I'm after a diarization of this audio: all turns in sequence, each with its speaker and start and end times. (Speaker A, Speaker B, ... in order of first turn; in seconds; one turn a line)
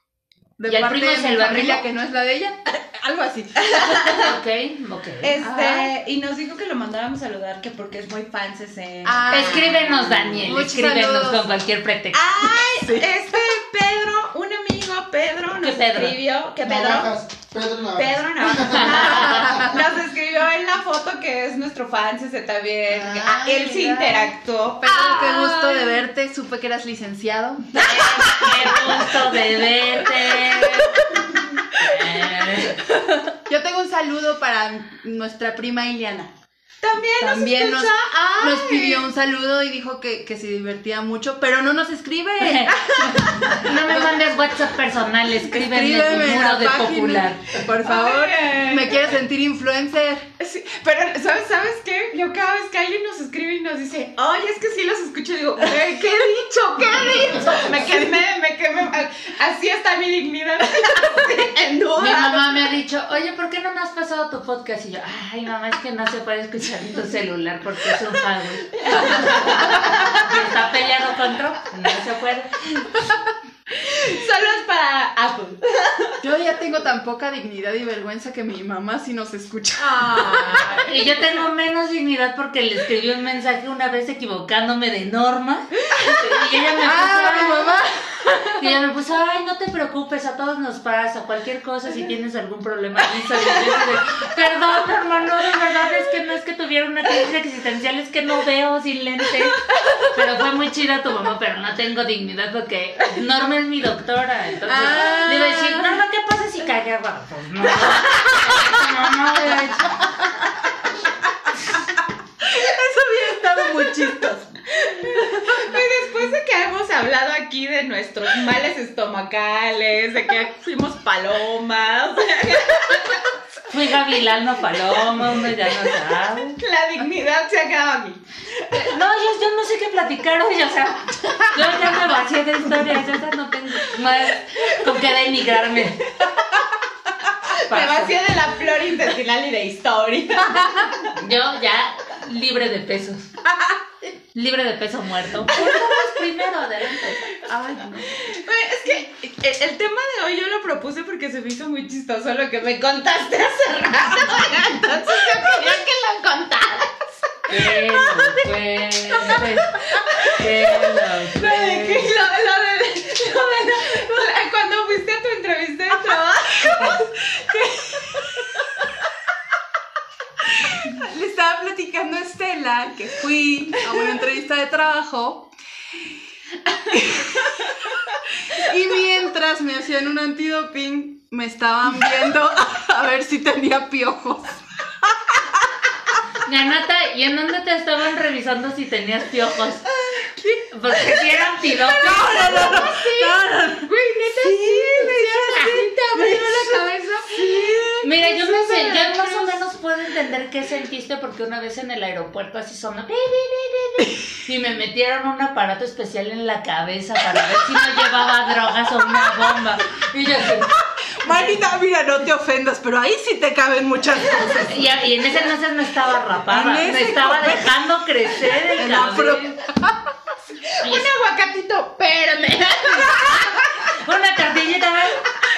Speaker A: 0.6-4.3
Speaker B: 0.7-1.9
Speaker C: 3.6-4.3
Speaker B: 4.2-5.4
Speaker C: 5.2-10.5
Speaker A: 5.4-5.9
Speaker A: 9.1-11.4
Speaker B: 9.3-12.2
Speaker C: 12.1-17.1
Speaker A: 12.6-13.1
Speaker B: 15.6-16.2
Speaker D: 16.6-19.7
Speaker C: 18.0-26.0
Speaker B: 18.7-19.7
Speaker A: 19.1-19.7
Speaker A: 22.9-29.1
Speaker B: 27.8-31.2
Speaker A: 30.4-30.8
Speaker B: 31.7-32.8
Speaker A: 33.2-36.3
Speaker C: 36.8-39.1
Speaker A: 37.2-44.2
Speaker B: 42.4-47.6
Speaker A: 45.4-50.4
Speaker C: 47.8-49.0
Speaker C: 50.4-62.7
Speaker A: 55.6-57.9
Speaker B: 62.0-72.8
Speaker C: 68.9-70.2
Speaker C: 73.7-76.2
Speaker A: 76.2-81.0
Speaker C: 79.8-81.0
Speaker B: 80.9-87.8
Speaker A: 86.0-86.3
Speaker A: 86.8-88.7
Speaker B: 88.6-110.0
Speaker A: 104.7-106.0
Speaker A: 108.3-108.9
Speaker A: 112.4-115.8
Speaker C: 114.9-123.2
Speaker B: 123.7-126.6
Speaker C: 126.6-128.7
Speaker B: 128.7-136.1
Speaker C: 137.5-141.2
Speaker B: 137.5-138.2
Speaker B: 141.2-143.3
Speaker B: 144.3-147.4
Speaker A: 147.5-148.4
Speaker C: 148.2-158.2
Speaker A: 155.1-155.6
Speaker B: 157.5-162.1
Speaker C: 160.2-160.5
Speaker C: 161.3-167.0
Speaker A: 166.5-168.7
Speaker A: 170.4-175.5
Speaker A: 176.9-185.7
Speaker B: 186.4-189.9
Speaker A: 190.2-199.6
Speaker B: 190.6-192.9
Speaker C: 192.1-198.0
Speaker B: 195.5-195.9
Speaker B: 198.0-210.7
Speaker A: 209.2-209.5
Speaker A: 210.5-214.8
Speaker B: 211.2-211.6
Speaker B: 214.6-219.6
Speaker A: 216.5-217.7
Speaker A: 218.8-220.0
Speaker C: 220.7-223.6
Speaker A: 222.9-223.3
Speaker B: 223.3-225.3